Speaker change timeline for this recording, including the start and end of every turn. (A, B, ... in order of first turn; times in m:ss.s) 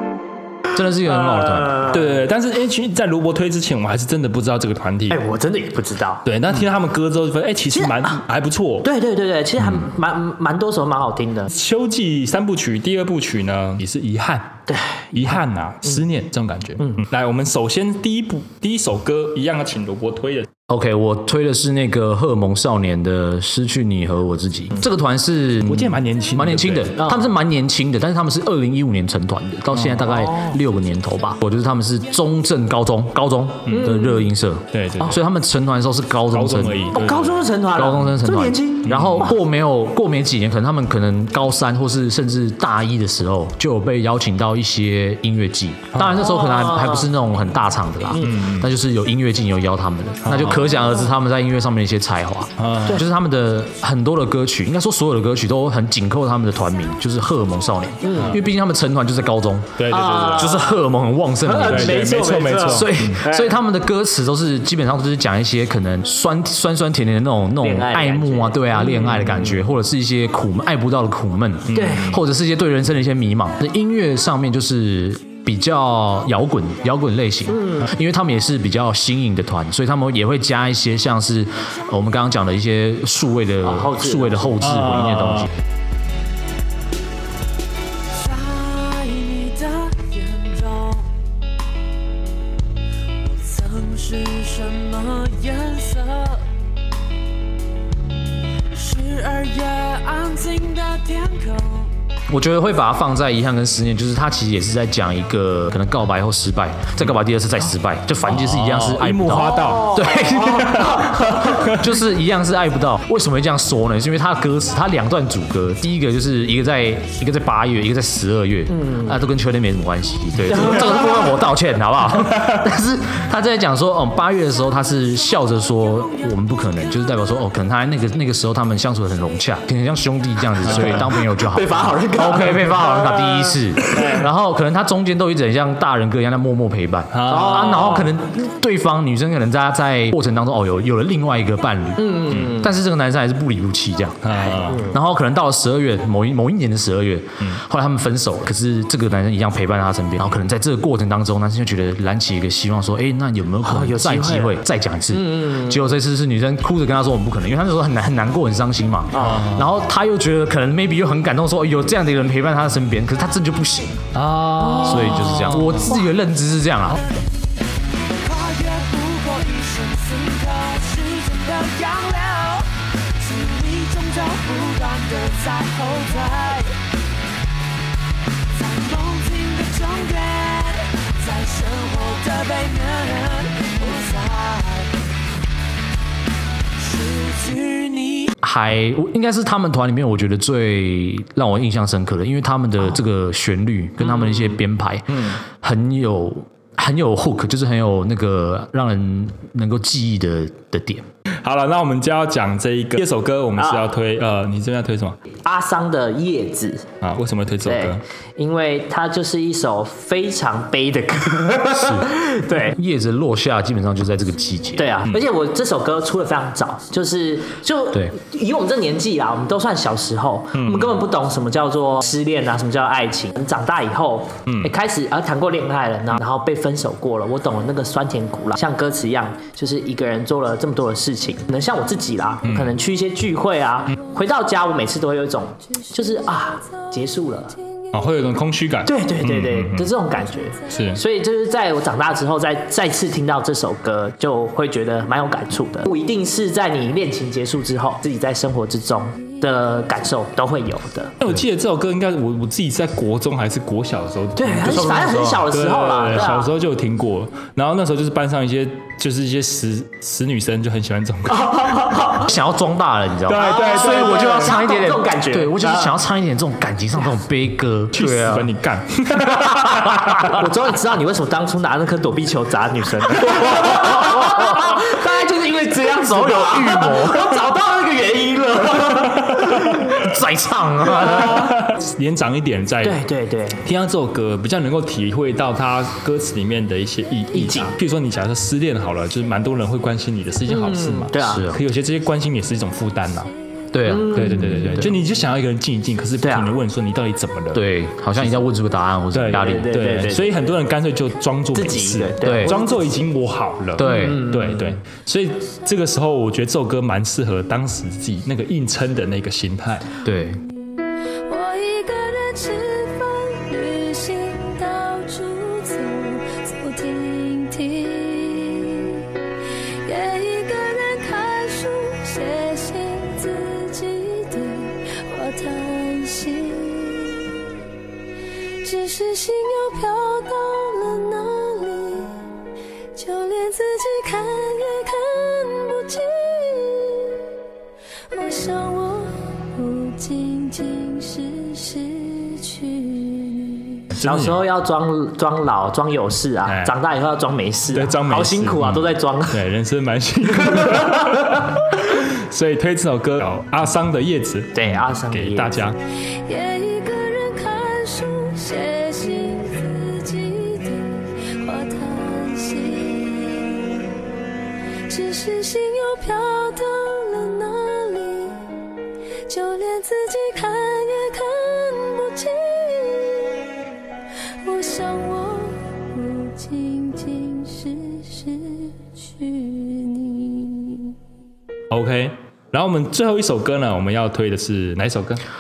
0:00.7-0:01.9 A
0:01.3-0:01.9 B
0:01.9-0:05.2 C
0:05.1-0:06.2 B
0:06.2-0:08.9 C
0:07.8-0:08.1 B
0:08.8-0:11.5 B
0:11.5-0:20.5 C
0:14.7-0:15.1 B
0:20.7-0:37.0 A
0:25.7-0:27.0 C
0:27.0-0:27.2 B
0:29.7-0:30.0 C
0:30.0-0:30.6 B
0:33.7-0:33.9 C
0:33.7-0:34.3 B
0:34.7-0:35.2 C
0:36.3-0:37.5 C
0:36.9-0:39.4 B
0:37.7-1:25.5 A
0:38.8-0:39.4 C
0:46.1-0:47.1 B
0:48.2-0:48.7 C
0:50.2-0:50.7 C
0:52.6-0:53.0 C
0:58.0-0:58.4 B
0:58.2-0:58.4 C
0:59.8-1:00.5 C
0:59.9-1:00.8 B
1:01.4-1:03.5 B
1:01.6-1:03.2 C
1:07.6-1:09.5 B
1:09.1-1:09.6 C
1:11.7-1:12.2 C
1:11.7-1:12.2 B
1:17.5-1:17.9 B
1:23.6-1:24.6 B
1:24.6-1:25.5 C
1:28.2-1:31.0 D
1:28.9-1:29.3 E
1:33.3-1:36.4 D
1:38.7-1:41.9 D
1:42.3-2:44.1 A
1:48.2-1:51.8 C
1:49.5-1:51.5 B
1:58.7-1:59.2 B
2:00.5-2:01.2 B
2:10.6-2:11.1 C
2:11.3-2:14.2 B
2:17.1-2:18.1 C
2:17.3-2:18.1 B
2:22.0-2:22.7 B
2:24.2-2:24.9 C
2:24.6-2:25.0 B
2:33.6-2:34.6 B
2:35.1-2:35.8 B
2:39.1-2:39.5 B
2:39.2-2:39.7 C
2:44.1-2:46.0 C
2:44.8-2:47.0 A
2:48.2-2:52.7 E
2:53.2-2:56.7 E
2:58.6-3:04.8 E
2:59.7-3:00.1 D
3:01.3-3:04.4 D
3:07.0-3:08.3 E
3:08.4-3:21.1 A
3:15.1-3:15.4 C
3:21.4-3:25.2 C
3:23.6-3:23.8 B
3:25.4-3:26.9 B
3:27.0-3:28.0 C
3:27.7-3:32.8 B
3:31.7-3:35.1 A
3:34.8-3:57.6 B
3:40.5-3:41.0 C
3:44.5-3:44.7 C
3:52.4-3:52.7 C
3:57.9-3:59.9 C
3:58.9-4:11.1 B
4:00.7-4:01.0 C
4:11.2-4:21.9 C
4:14.4-4:16.5 B
4:14.6-4:15.5 A
4:21.3-4:22.3 B
4:22.1-4:28.5 A
4:23.3-4:24.5 C
4:23.4-4:26.0 B
4:27.9-4:30.4 C
4:29.3-4:30.3 A
4:30.2-4:39.7 B
4:34.3-4:34.7 A
4:36.0-4:37.4 A
4:39.4-4:41.6 A
4:39.5-4:39.8 C
4:41.0-4:43.0 C
4:42.8-4:43.6 B
4:43.6-4:53.3 C
4:47.3-4:47.7 B
4:50.5-4:51.5 B
4:51.2-4:51.6 A
4:53.7-4:54.9 A
4:53.9-4:54.9 B
4:54.0-4:58.4 C
4:56.2-4:56.5 B
4:57.5-4:59.8 A
4:59.1-5:09.9 C
4:59.3-5:00.5 B
5:01.6-5:02.8 B
5:02.2-5:02.6 A
5:03.8-5:04.3 A
5:03.8-5:04.7 B
5:10.0-5:10.4 A
5:11.3-5:19.1 D
5:19.8-5:27.3 D
5:28.6-5:32.2 D
5:33.0-5:37.2 D
5:38.1-5:43.8 D
5:43.9-5:44.4 C
5:44.0-5:49.4 B
5:46.4-5:46.8 C
5:47.7-5:55.8 C
5:54.6-5:55.6 B
5:56.2-6:03.8 D
6:04.9-6:08.5 D
6:09.3-6:13.4 D
6:14.4-6:21.0 D
6:21.7-6:25.2 C